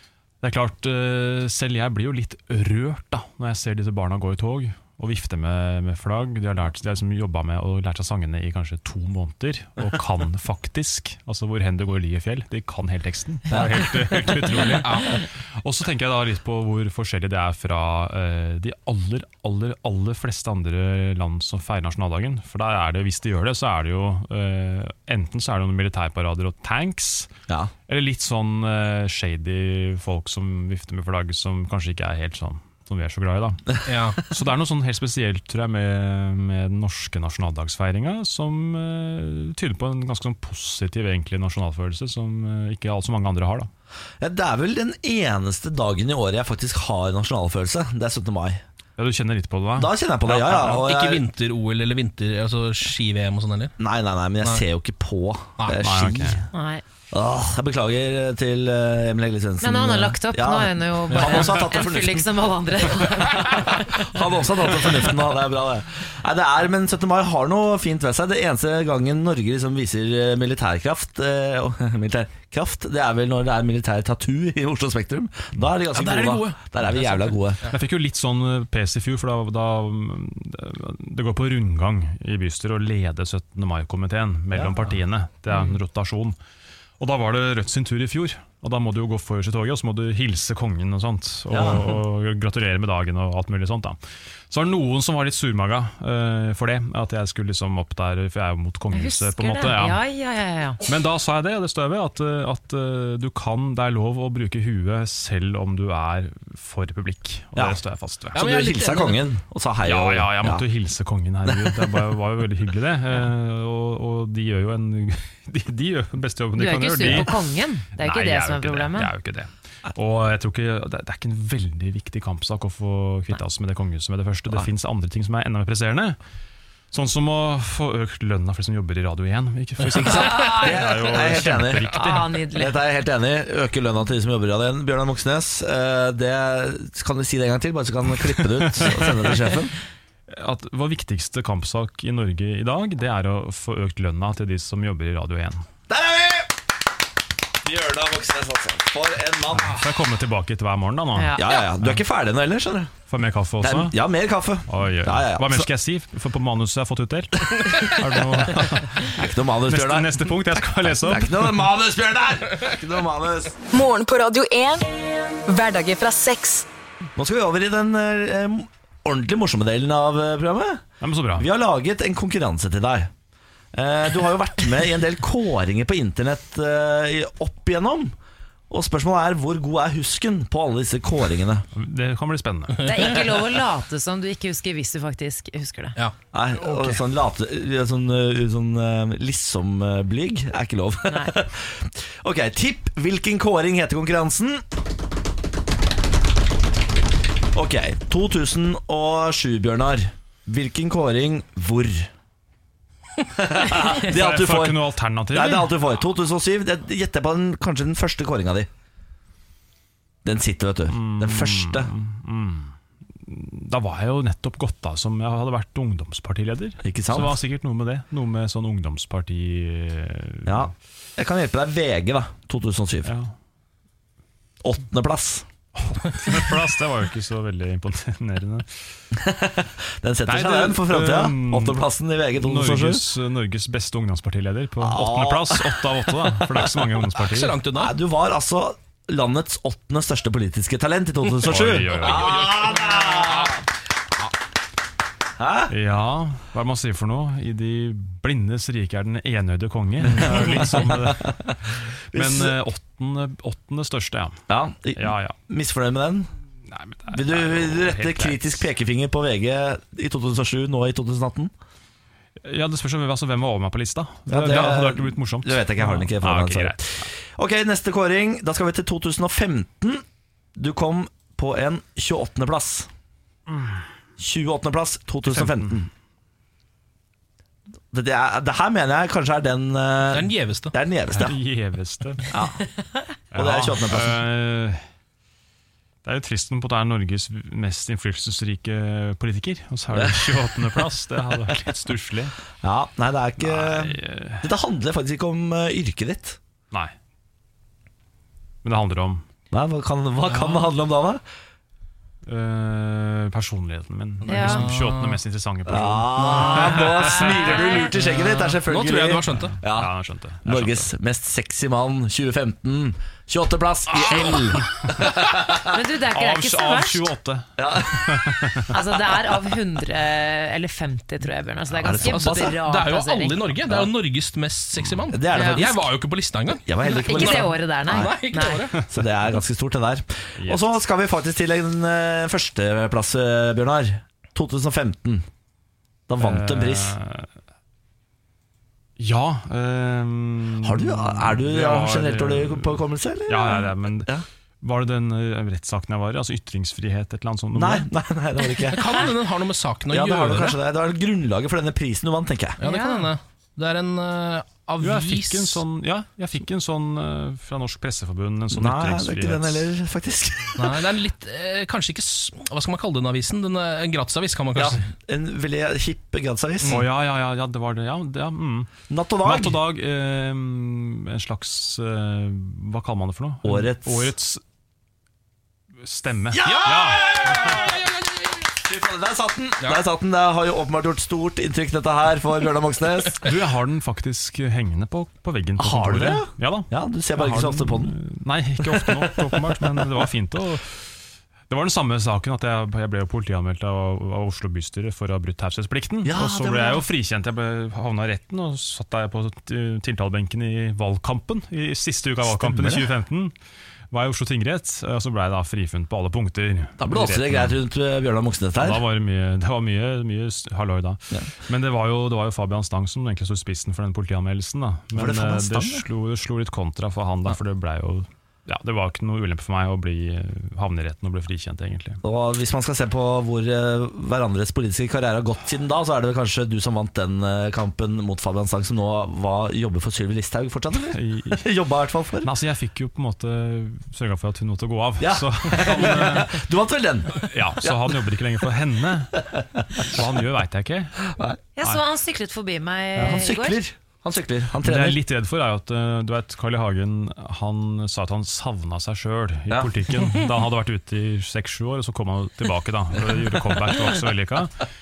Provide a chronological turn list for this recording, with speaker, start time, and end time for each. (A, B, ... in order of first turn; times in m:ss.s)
0:00.4-0:27.3 A
0:13.5-0:14.2 B
0:14.8-0:15.1 C
0:27.9-0:43.7 A
0:33.8-0:34.2 C
0:44.2-0:48.6 B
0:49.0-0:50.7 A
0:49.8-0:51.2 B
0:50.5-0:53.7 C
0:53.8-0:56.4 B
0:55.8-0:56.4 A
0:56.5-0:56.8 D
0:57.1-1:17.6 B
0:59.6-1:04.0 D
1:01.1-1:01.5 C
1:15.9-1:17.7 C
1:17.7-1:26.4 A
1:24.5-1:25.0 B
1:25.5-1:25.8 D
1:27.0-1:34.0 A
1:31.5-1:32.0 B
1:34.5-1:40.0 A
1:38.9-1:40.8 D
1:40.8-1:48.4 A
1:48.3-1:49.2 C
1:48.3-1:50.6 B
1:49.8-1:57.4 A
1:51.6-1:51.9 B
1:56.6-1:59.1 D
1:57.9-2:06.2 A
2:06.9-2:12.4 A
2:10.0-2:19.7 B
2:10.2-2:12.8 D
2:18.6-2:19.4 A
2:20.3-2:25.6 A
2:25.9-2:26.6 B
2:27.6-2:29.8 B
2:29.5-2:32.0 A
2:31.1-2:31.4 D
2:31.4-2:33.0 B
2:33.1-2:33.9 A
2:33.6-2:35.7 B
2:34.7-2:41.6 A
2:39.1-2:40.3 B
2:41.0-2:43.6 B
2:43.7-2:44.9 E
2:45.4-2:46.6 E
2:47.2-2:53.1 B
2:51.0-2:51.5 A
2:53.7-2:58.1 B
2:58.7-3:01.7 B
3:01.7-3:02.9 A
3:02.8-3:06.0 D
3:06.3-3:14.6 B
3:17.5-3:22.1 B
3:23.3-3:28.7 B
3:23.8-3:25.7 A
3:30.2-3:31.9 B
3:30.9-3:32.7 A
3:33.2-3:40.7 A
3:36.8-3:37.4 B
3:40.4-3:43.1 B
3:43.0-3:43.3 A
3:44.6-3:45.4 B
3:45.8-3:48.7 A
3:49.1-3:53.1 B
3:50.2-3:51.8 A
3:52.3-3:57.6 A
3:54.8-3:57.0 B
3:57.2-3:57.9 C
3:57.7-4:03.6 B
4:01.4-4:02.4 A
4:01.9-4:03.6 C
4:05.4-4:05.7 B
4:05.7-4:14.4 A
4:10.1-4:11.5 B
4:12.1-4:12.5 B
4:14.5-4:16.3 B
4:15.0-4:15.4 A
4:16.7-4:18.6 A
4:17.1-4:21.5 B
4:22.4-4:27.0 A
4:24.3-4:30.0 B
4:30.6-4:32.9 B
4:33.5-4:33.8 A
4:34.2-4:35.9 B
4:35.2-4:35.8 A
4:37.9-4:41.4 B
4:40.1-4:40.7 C
4:41.1-4:42.3 A
4:42.3-4:42.6 B
4:43.3-4:44.2 B
4:43.3-4:44.8 A
4:46.0-4:52.3 A
4:49.9-4:50.6 B
4:52.6-4:56.4 B
4:53.4-4:54.5 A
4:58.6-4:59.2 A
4:59.5-5:01.2 B
5:00.3-5:00.7 C
5:02.2-5:07.8 A
5:04.2-5:05.2 C
5:04.3-5:04.6 D
5:05.7-5:15.6 B
5:06.5-5:07.9 D
5:08.0-5:09.6 C
5:09.4-5:10.9 A
5:15.6-5:17.1 D
5:16.1-5:18.7 A
5:17.6-5:18.4 B
5:18.7-5:23.4 D
5:21.8-5:22.6 B
5:22.0-5:28.8 C
5:25.1-5:25.9 B
5:25.3-5:25.6 D
5:26.6-5:28.1 B
5:26.8-5:28.6 D
5:28.9-5:35.2 B
5:30.4-5:30.7 A
5:36.1-5:36.9 B
5:36.2-5:37.3 A
5:39.0-5:44.1 A
5:40.6-5:44.2 B
5:44.6-5:47.9 A
5:47.5-5:49.1 B
5:48.7-5:50.6 C
5:49.9-5:52.6 B
5:52.6-5:55.6 C
5:52.6-5:53.1 D
5:54.8-5:59.6 A
5:58.5-6:00.8 B
6:00.6-6:04.8 C
6:04.5-6:06.8 B
6:06.7-6:08.7 A
6:08.9-6:09.6 B
6:09.2-6:14.4 A
6:13.4-6:14.1 B
6:15.8-6:17.7 A
6:16.3-6:17.8 B
6:16.4-6:18.5 C
6:18.6-6:23.3 B
6:23.2-6:43.3 A
6:25.6-6:28.0 B
6:36.0-6:36.8 B
6:42.2-6:42.9 B
6:43.9-6:47.6 A
6:46.8-6:48.8 B
6:48.6-7:02.0 A
6:54.9-6:55.8 B
7:02.0-7:12.3 B
7:10.9-7:11.4 A
7:12.2-7:16.4 A
7:15.0-7:18.0 B
7:17.1-7:19.2 A
7:19.4-7:20.0 B
7:19.8-7:21.0 A
7:21.0-7:21.4 B
7:21.6-7:23.6 D
7:23.0-7:25.0 B
7:24.6-7:34.6 A